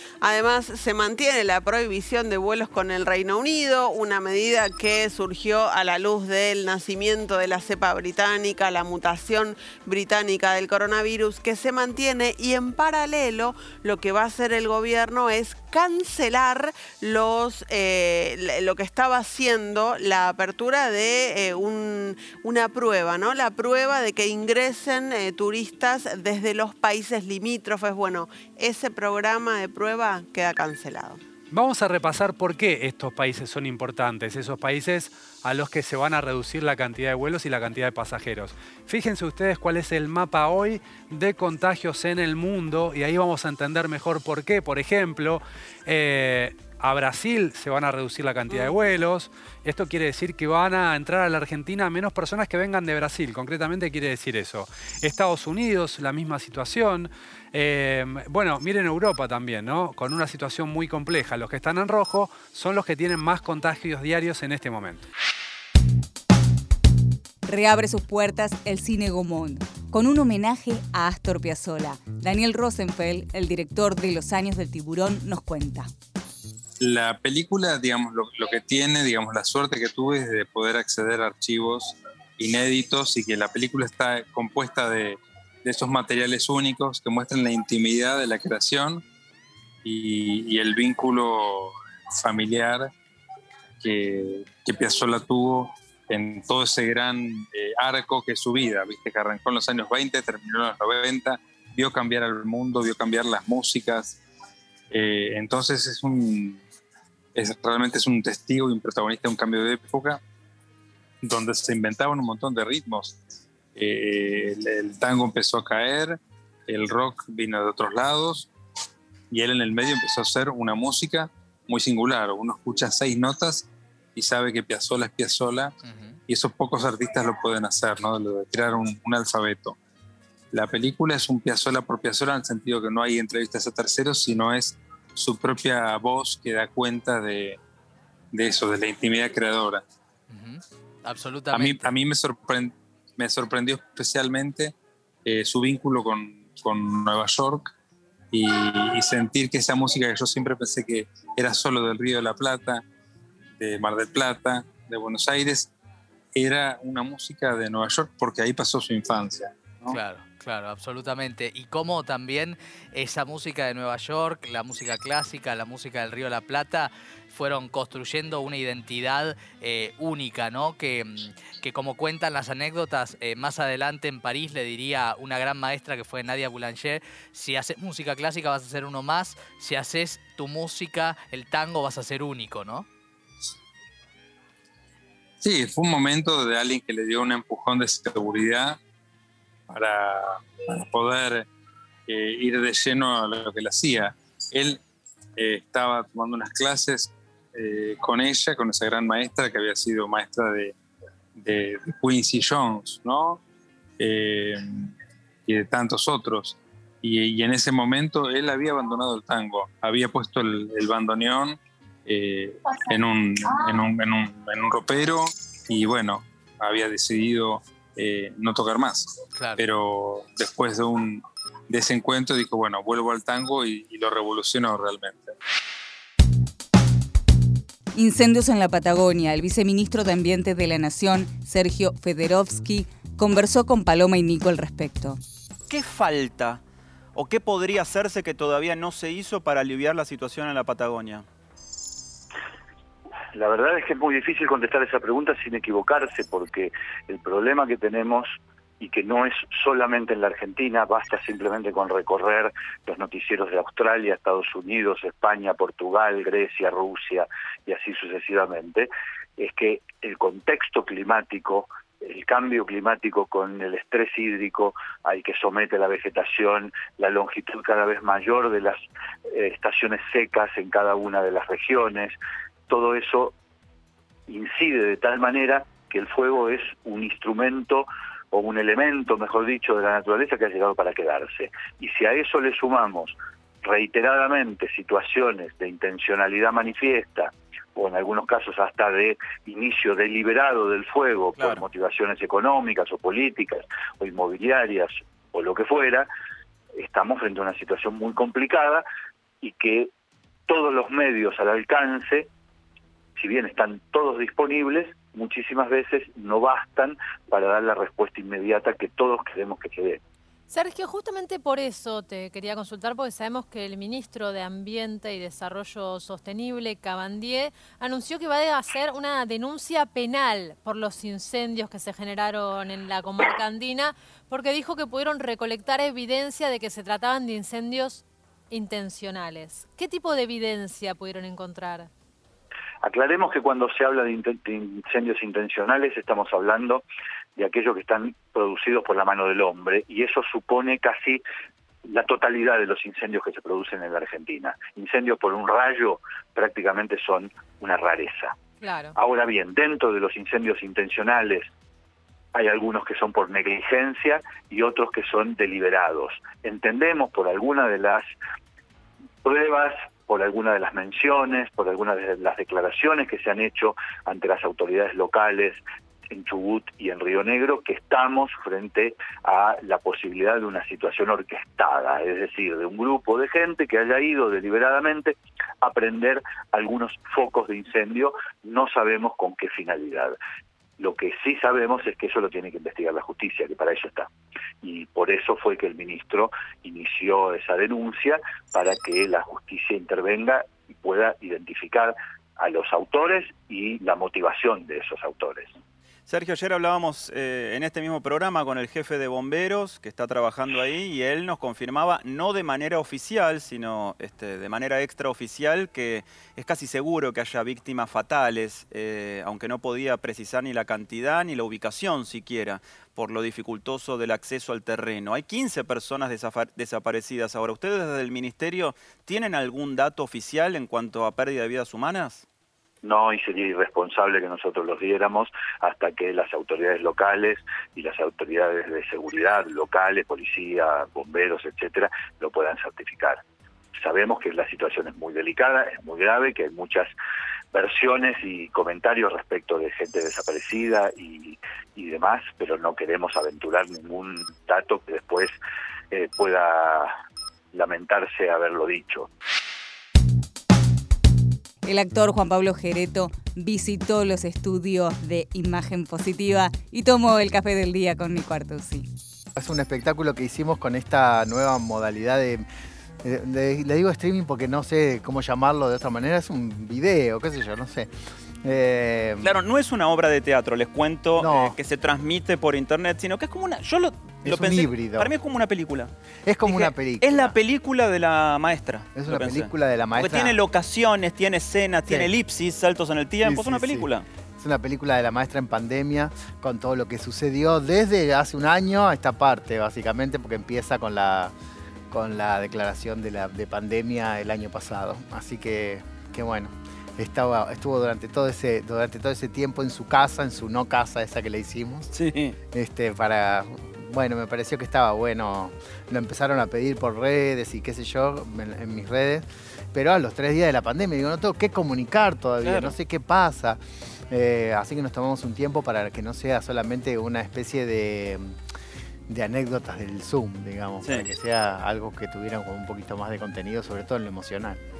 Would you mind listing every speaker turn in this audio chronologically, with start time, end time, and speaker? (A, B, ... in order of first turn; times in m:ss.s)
0:00.2-0:31.2 A
0:31.5-1:05.1 B
1:07.5-1:15.9 C
1:16.8-1:29.0 D
1:29.8-1:32.9 D
1:33.8-1:44.2 D
1:44.9-1:46.6 D
1:47.4-1:50.2 D
1:51.2-1:53.2 D
1:53.8-1:58.5 D
1:59.3-2:05.7 D
2:05.8-2:06.2 E
2:06.3-2:09.8 D
2:10.5-2:17.6 D
2:18.3-2:19.8 D
2:20.3-2:21.9 E
2:21.5-2:24.7 D
2:25.2-2:27.7 D
2:28.3-2:32.8 D
2:33.6-2:35.7 D
2:36.4-2:40.0 D
2:39.9-3:02.9 E
3:05.4-3:08.8 D
3:09.7-3:11.5 D
3:12.1-3:14.8 D
3:15.4-3:20.8 D
3:21.4-3:23.4 D
3:24.0-3:24.9 D
3:25.5-3:45.3 D
3:39.4-3:39.6 E
3:48.0-3:55.2 C
3:55.7-3:56.6 F
3:57.2-4:01.3 F
4:03.3-4:32.2 G
4:32.7-4:33.4 G
4:34.3-4:56.1 G
4:51.4-4:51.6 F
4:56.8-4:58.8 G
4:59.4-4:59.9 G
5:00.5-5:02.3 G
5:03.2-5:10.0 G
5:10.5-5:31.9 H
5:32.8-5:36.8 G
5:37.4-5:41.2 G
5:41.9-5:48.4 G
5:48.6-5:49.0 H
5:49.0-5:51.5 G
5:52.3-5:58.1 G
5:59.2-6:20.2 G
6:20.8-6:24.1 G
6:24.6-6:35.6 G
6:36.1-7:02.2 F
7:02.8-7:13.2 G
7:13.8-7:16.9 G
7:17.5-7:25.3 G
7:25.9-7:27.0 G
7:27.5-7:29.1 G
7:31.6-7:38.9 C
7:39.4-7:42.5 I
7:43.0-7:47.9 I
7:48.4-7:49.4 I
7:49.2-7:55.9 F
7:51.2-7:51.6 I
7:54.2-7:55.1 I
7:56.3-7:57.4 I
7:56.4-8:04.1 F
7:58.9-8:00.4 I
8:03.2-8:11.3 I
8:11.9-8:21.9 I
8:21.9-8:22.4 F
8:22.5-8:38.4 I
8:32.4-8:32.8 F
8:39.1-8:44.6 I
8:40.8-8:41.1 F